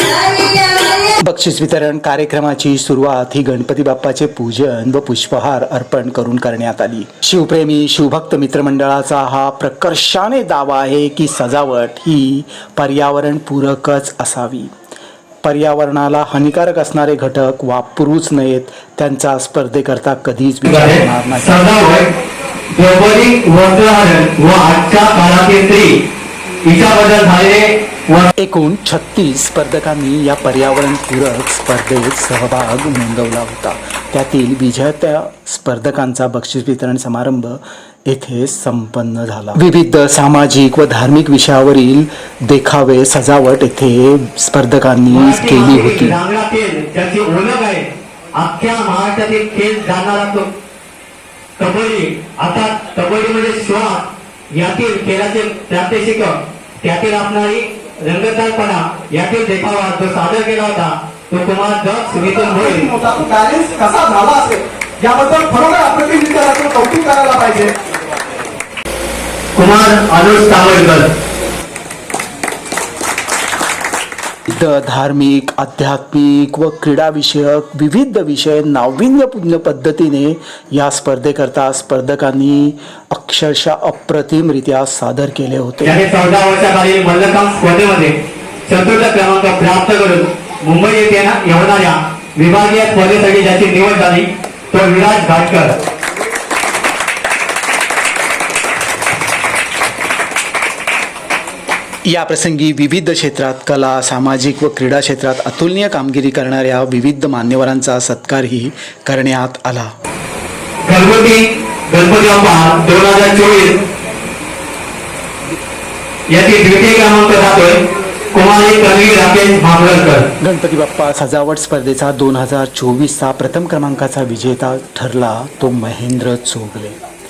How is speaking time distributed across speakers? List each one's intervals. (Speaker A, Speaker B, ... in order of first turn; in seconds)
Speaker A: 0.9-14.7, 15.4-21.7, 28.4-46.2, 74.5-86.0, 102.1-109.9, 120.4-127.0
Speaker B: 20.6-22.1, 22.7-25.9, 26.6-28.3, 45.1-50.5, 51.6-62.9, 69.5-71.0, 85.8-88.1, 88.7-95.8, 110.8-113.8, 116.3-117.8, 118.3-120.2
Speaker C: 62.6-67.7